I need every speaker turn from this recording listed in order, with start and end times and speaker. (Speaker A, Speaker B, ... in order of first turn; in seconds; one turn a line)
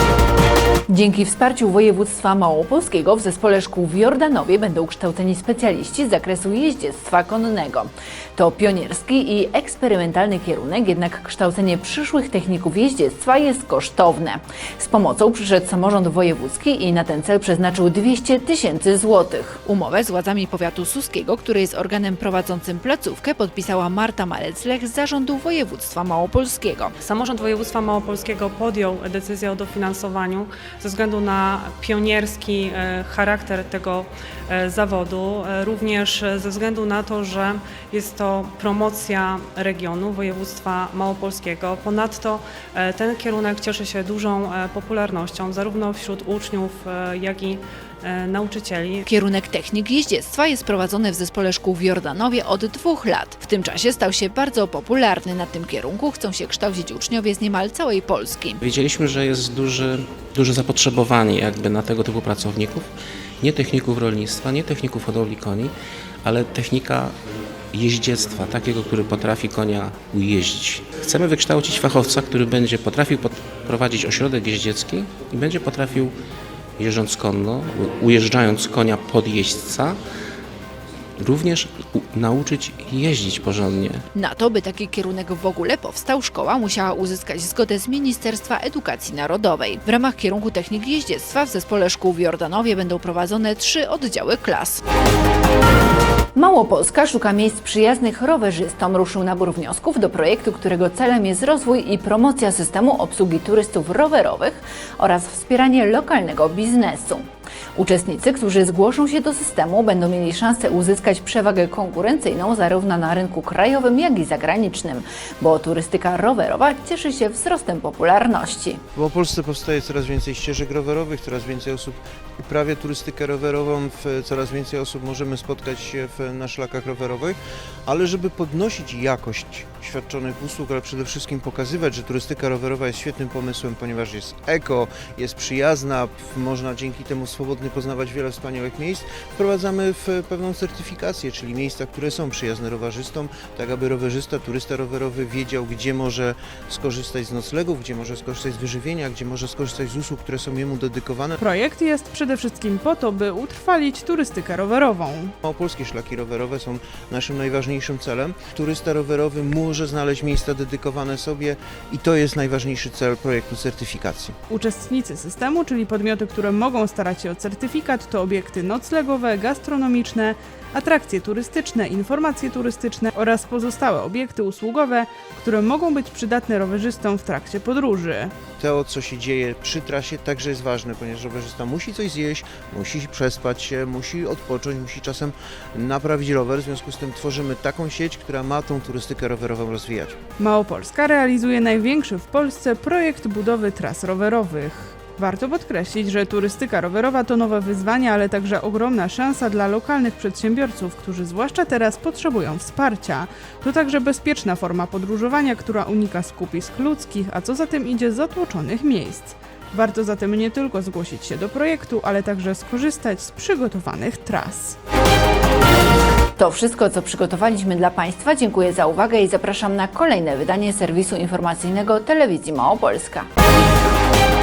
Speaker A: 0.9-26.9
Speaker B: 27.0-49.0
Speaker A: 49.1-58.6
Speaker C: 58.6-62.9
Speaker C: 63.4-67.2
Speaker C: 67.7-76.2
Speaker C: 76.8-80.0
Speaker C: 81.2-84.0
Speaker A: 84.1-94.8
Speaker A: 96.4-118.8
Speaker D: 119.0-151.4
Speaker E: 151.4-155.3
Speaker D: 155.4-164.4
Speaker E: 164.5-178.3
Speaker D: 178.6-190.2
Speaker E: 190.4-214.8
Speaker A: 216.4-223.3